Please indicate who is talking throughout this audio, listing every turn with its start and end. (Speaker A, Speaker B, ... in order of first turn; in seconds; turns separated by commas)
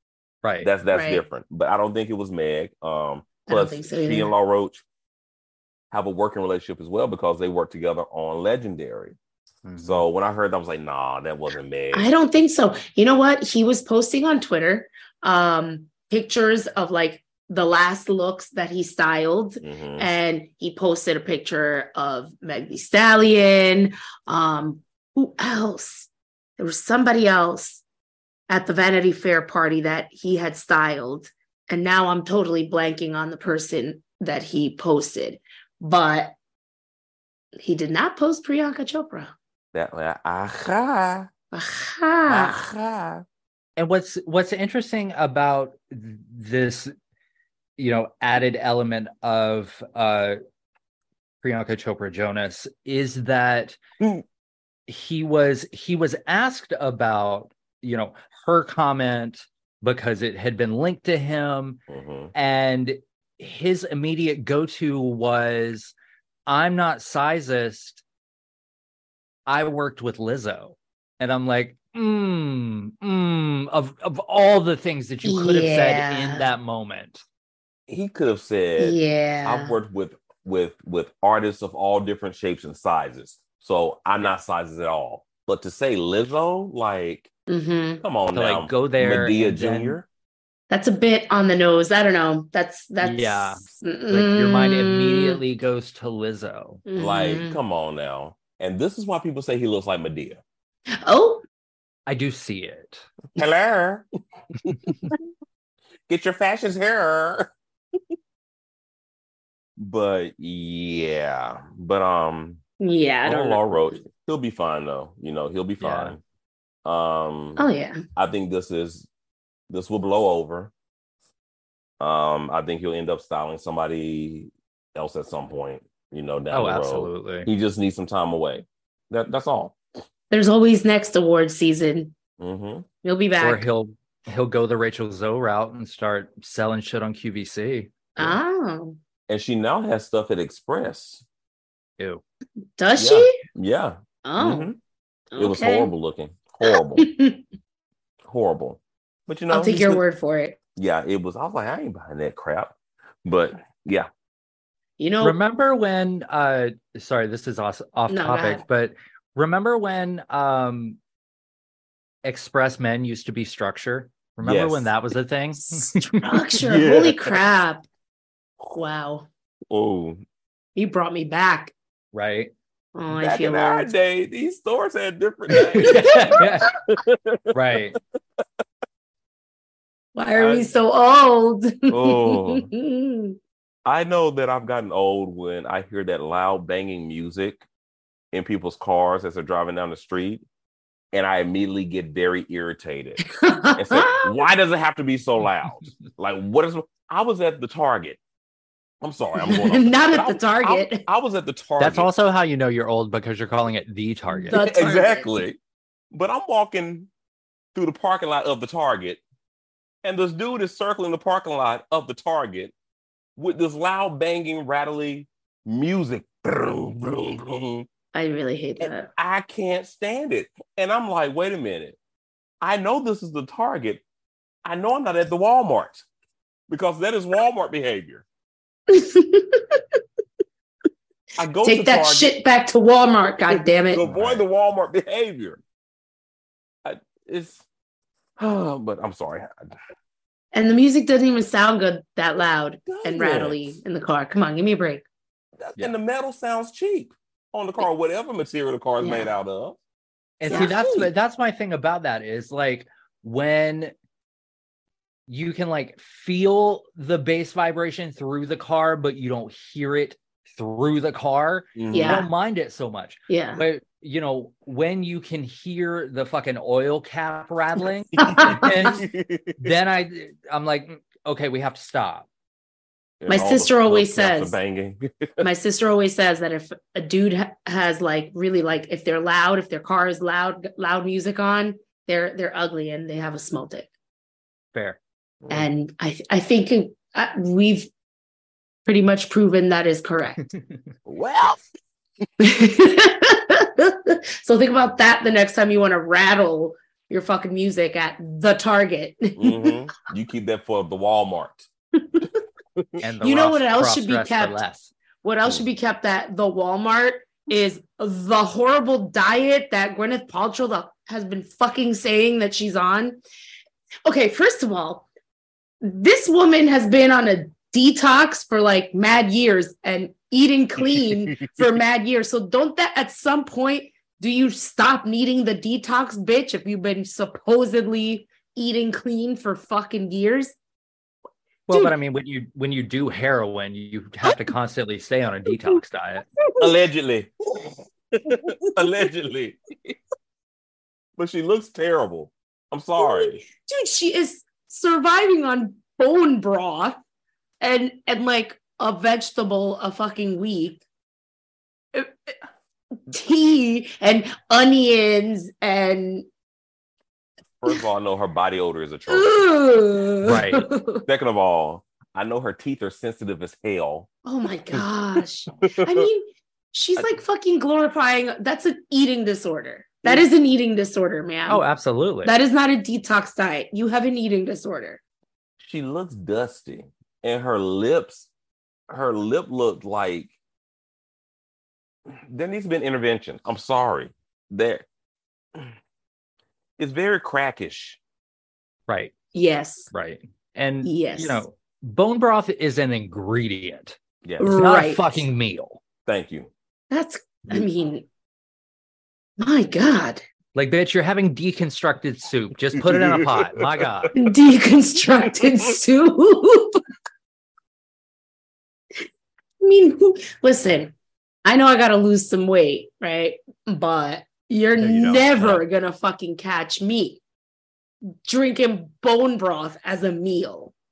Speaker A: 0.4-0.7, Speaker B: 0.6-4.8, Speaker C: 0.9-1.3, Speaker C: 3.5-4.3, Speaker B: 5.9-9.2, Speaker A: 9.7-10.1, Speaker B: 9.8-12.1, Speaker C: 11.9-27.8, Speaker B: 19.6-20.1, Speaker C: 28.5-36.4, Speaker C: 37.6-39.3, Speaker B: 39.7-41.3, Speaker C: 41.5-42.6, Speaker B: 42.3-43.2, Speaker A: 43.8-47.0, Speaker A: 47.8-50.4, Speaker A: 51.4-53.8, Speaker A: 54.9-61.8, Speaker B: 61.9-62.3, Speaker A: 62.3-65.9, Speaker A: 66.5-68.0, Speaker A: 69.5-77.2, Speaker C: 75.2-76.5, Speaker B: 77.9-87.3, Speaker C: 78.8-79.8, Speaker C: 87.5-88.0, Speaker B: 88.0-90.1, Speaker A: 88.3-90.0, Speaker C: 90.7-95.4, Speaker A: 93.0-96.8, Speaker C: 96.9-97.6, Speaker B: 97.0-100.4, Speaker C: 101.0-101.5, Speaker A: 102.1-103.1, Speaker B: 103.4-104.0, Speaker B: 104.6-105.0, Speaker B: 106.1-107.5, Speaker B: 109.8-112.6, Speaker C: 112.8-113.9, Speaker B: 113.2-116.2, Speaker A: 115.8-116.2, Speaker B: 116.8-119.1, Speaker C: 117.6-118.0, Speaker B: 119.7-120.7, Speaker B: 122.0-129.8, Speaker A: 126.5-127.5, Speaker C: 130.3-132.1, Speaker B: 132.4-132.9, Speaker C: 133.0-133.7, Speaker A: 133.4-138.3, Speaker C: 138.2-139.0, Speaker B: 139.3-141.2, Speaker A: 142.0-142.2, Speaker C: 142.8-143.4, Speaker B: 143.0-144.8, Speaker C: 144.2-144.7, Speaker C: 145.3-145.9, Speaker B: 145.4-147.1, Speaker C: 146.7-147.4, Speaker B: 148.2-150.0, Speaker C: 149.5-150.6, Speaker B: 150.8-154.1, Speaker C: 155.0-155.4, Speaker A: 155.2-161.0, Speaker C: 158.1-158.6, Speaker A: 162.2-166.3, Speaker B: 164.4-164.9, Speaker C: 166.2-167.9, Speaker B: 166.6-167.4, Speaker C: 168.7-169.3, Speaker B: 169.7-170.2, Speaker C: 170.8-171.7, Speaker A: 172.1-172.5, Speaker C: 172.9-173.9, Speaker B: 173.1-177.6, Speaker A: 175.5-176.7, Speaker C: 175.8-176.5, Speaker A: 177.5-178.0, Speaker C: 180.2-183.4, Speaker B: 180.3-180.7, Speaker B: 181.9-182.7, Speaker B: 183.8-187.7, Speaker B: 188.3-190.4, Speaker B: 191.1-193.2, Speaker C: 193.3-194.4, Speaker B: 193.8-198.2, Speaker B: 199.0-202.1, Speaker C: 199.4-201.0, Speaker A: 201.8-204.6, Speaker C: 204.4-205.4, Speaker B: 204.5-205.6, Speaker B: 206.1-207.1, Speaker B: 207.7-209.2, Speaker B: 210.0-212.7, Speaker B: 213.4-217.9, Speaker C: 218.1-219.1, Speaker B: 218.8-222.0, Speaker B: 222.6-224.0, Speaker B: 224.7-226.1, Speaker B: 226.7-228.2, Speaker C: 228.9-229.8, Speaker B: 231.4-232.4, Speaker C: 231.6-234.1, Speaker B: 233.5-235.6, Speaker A: 234.1-234.4, Speaker B: 236.8-237.7, Speaker B: 238.4-239.8, Speaker C: 240.5-245.1, Speaker B: 242.8-243.8, Speaker B: 245.6-249.8, Speaker C: 249.0-249.3, Speaker A: 250.4-253.9, Speaker C: 250.5-251.1, Speaker A: 255.3-269.0, Speaker B: 261.8-262.3, Speaker C: 261.9-262.3, Speaker C: 263.3-263.6, Speaker B: 268.2-269.6, Speaker C: 268.2-268.7, Speaker A: 269.6-272.3, Speaker B: 273.2-275.5, Speaker C: 273.3-274.6, Speaker C: 275.4-283.9, Speaker A: 284.7-285.0, Speaker C: 285.5-287.9, Speaker C: 288.9-290.5, Speaker A: 290.5-290.8, Speaker B: 291.1-291.6, Speaker C: 292.4-299.7, Speaker B: 299.4-301.7, Speaker A: 303.0-304.9, Speaker C: 303.2-304.6, Speaker C: 305.2-313.2, Speaker C: 314.1-315.1, Speaker C: 315.8-330.6, Speaker A: 331.7-336.3, Speaker C: 336.4-336.7, Speaker B: 336.6-340.0, Speaker B: 341.2-343.4, Speaker C: 343.0-347.0, Speaker C: 347.6-350.8, Speaker C: 351.9-352.3, Speaker C: 353.1-356.3, Speaker B: 357.6-359.5, Speaker C: 359.1-361.1, Speaker A: 360.2-360.7, Speaker B: 361.1-364.1, Speaker C: 364.2-371.6, Speaker B: 365.6-366.1, Speaker A: 371.5-372.3, Speaker C: 372.2-375.0, Speaker B: 375.6-378.3, Speaker B: 378.9-380.3, Speaker B: 382.3-384.9, Speaker B: 386.8-388.0, Speaker A: 388.9-389.1, Speaker C: 389.3-389.9, Speaker A: 389.9-395.8, Speaker C: 390.8-391.4, Speaker B: 394.2-394.6, Speaker C: 394.4-395.3, Speaker B: 396.1-396.5, Speaker C: 396.9-398.1, Speaker C: 399.4-400.2, Speaker A: 400.6-404.1, Speaker B: 402.8-404.1, Speaker C: 404.1-406.8, Speaker C: 409.6-410.9, Speaker C: 411.4-417.2, Speaker A: 414.8-415.6, Speaker C: 418.1-420.7